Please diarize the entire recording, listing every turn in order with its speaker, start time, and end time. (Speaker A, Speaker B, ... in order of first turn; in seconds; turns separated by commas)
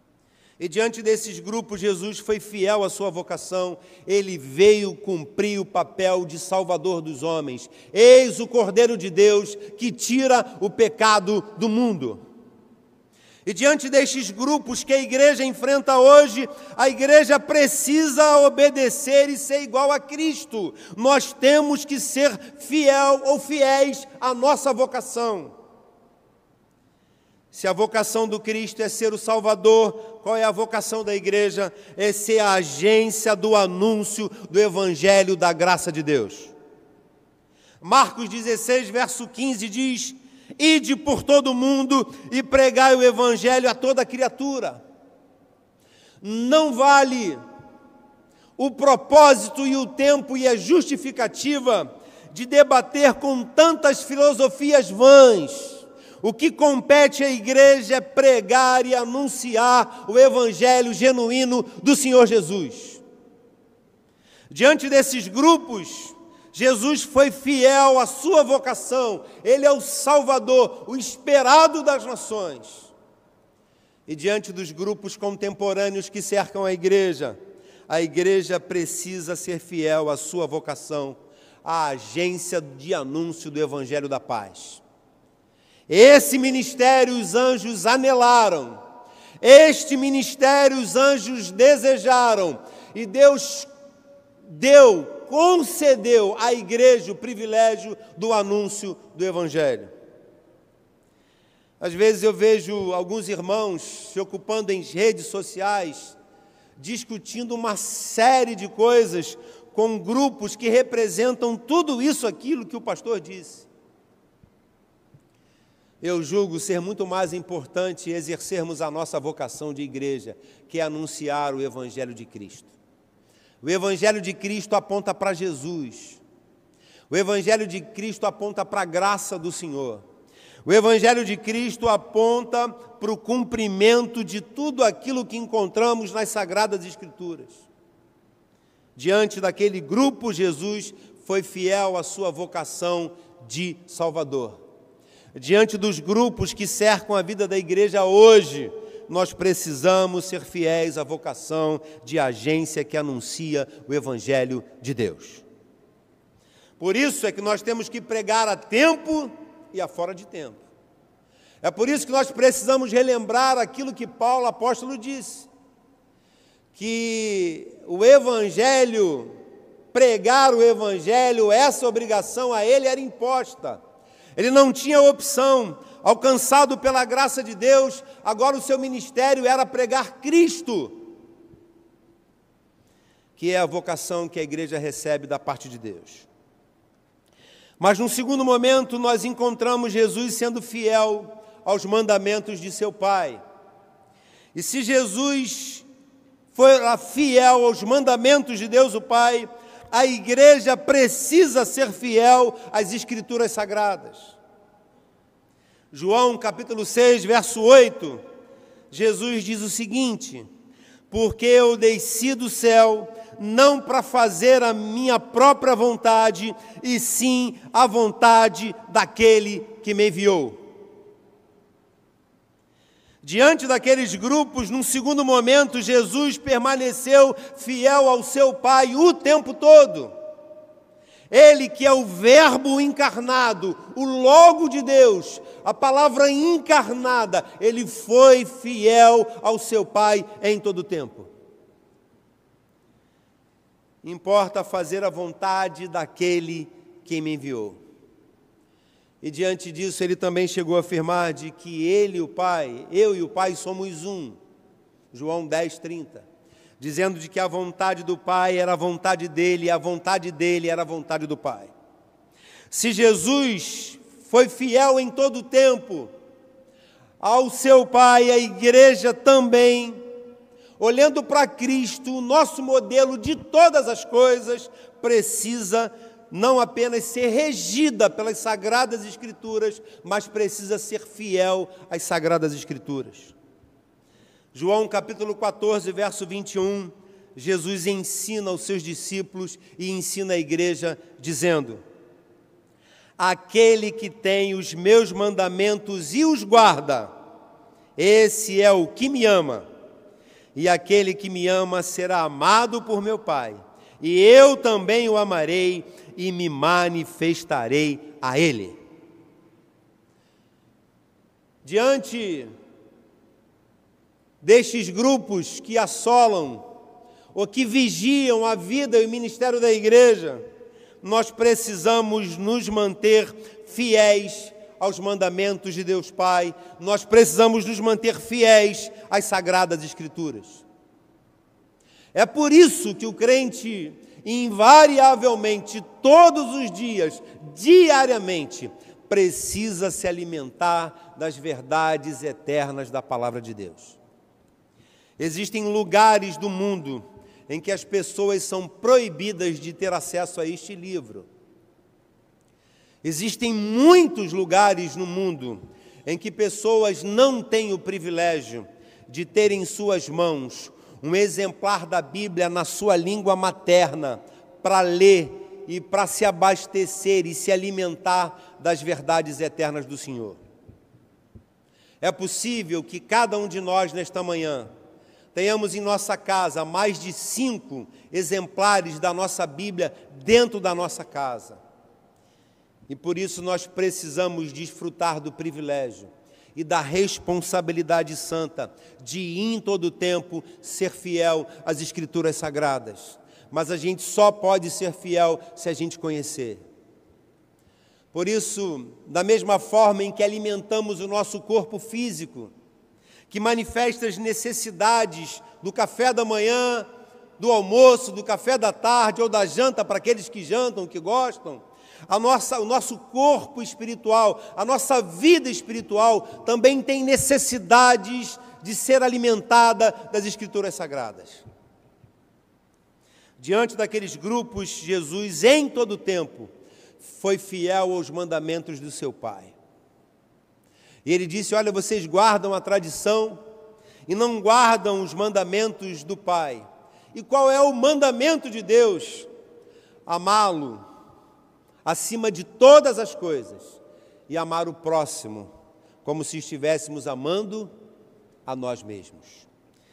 Speaker A: 0.6-12.2, Speaker A: 13.5-25.5, Speaker A: 27.5-36.5, Speaker A: 37.8-44.8, Speaker A: 46.2-47.4, Speaker A: 48.6-63.0, Speaker A: 64.5-72.9, Speaker A: 74.1-77.4, Speaker A: 77.9-84.8, Speaker A: 85.9-88.8, Speaker A: 89.4-93.7, Speaker A: 94.4-99.9, Speaker A: 101.8-106.2, Speaker A: 106.8-113.7, Speaker A: 116.0-122.7, Speaker A: 123.6-126.2, Speaker A: 127.1-130.0, Speaker A: 130.6-137.7, Speaker A: 139.0-144.6, Speaker A: 145.3-155.4, Speaker A: 156.8-160.6, Speaker A: 161.6-165.5, Speaker A: 166.7-169.4, Speaker A: 169.9-173.8, Speaker A: 174.4-181.0, Speaker A: 183.4-186.3, Speaker A: 187.8-193.4, Speaker A: 194.6-195.8, Speaker A: 196.5-204.4, Speaker A: 205.9-208.2, Speaker A: 208.9-210.5, Speaker A: 211.1-220.6, Speaker A: 223.2-230.1, Speaker A: 231.3-241.3, Speaker A: 244.0-247.8, Speaker A: 249.2-254.4, Speaker A: 255.1-256.3, Speaker A: 256.8-261.7, Speaker A: 262.7-266.1, Speaker A: 267.2-270.0, Speaker A: 270.8-283.3, Speaker A: 284.5-291.8, Speaker A: 293.2-297.1, Speaker A: 298.0-299.6, Speaker A: 300.6-308.8, Speaker A: 311.6-312.5, Speaker A: 314.4-316.6, Speaker A: 317.3-320.4, Speaker A: 321.0-330.6, Speaker A: 332.1-344.0, Speaker A: 345.2-351.3, Speaker A: 353.0-370.4, Speaker A: 372.0-374.7, Speaker A: 375.3-381.6, Speaker A: 382.9-396.6, Speaker A: 398.1-402.5, Speaker A: 403.3-406.9, Speaker A: 407.4-421.4, Speaker A: 423.4-429.6, Speaker A: 431.1-433.4, Speaker A: 434.1-439.3, Speaker A: 440.1-440.8, Speaker A: 441.9-445.5, Speaker A: 446.0-447.7, Speaker A: 448.5-449.5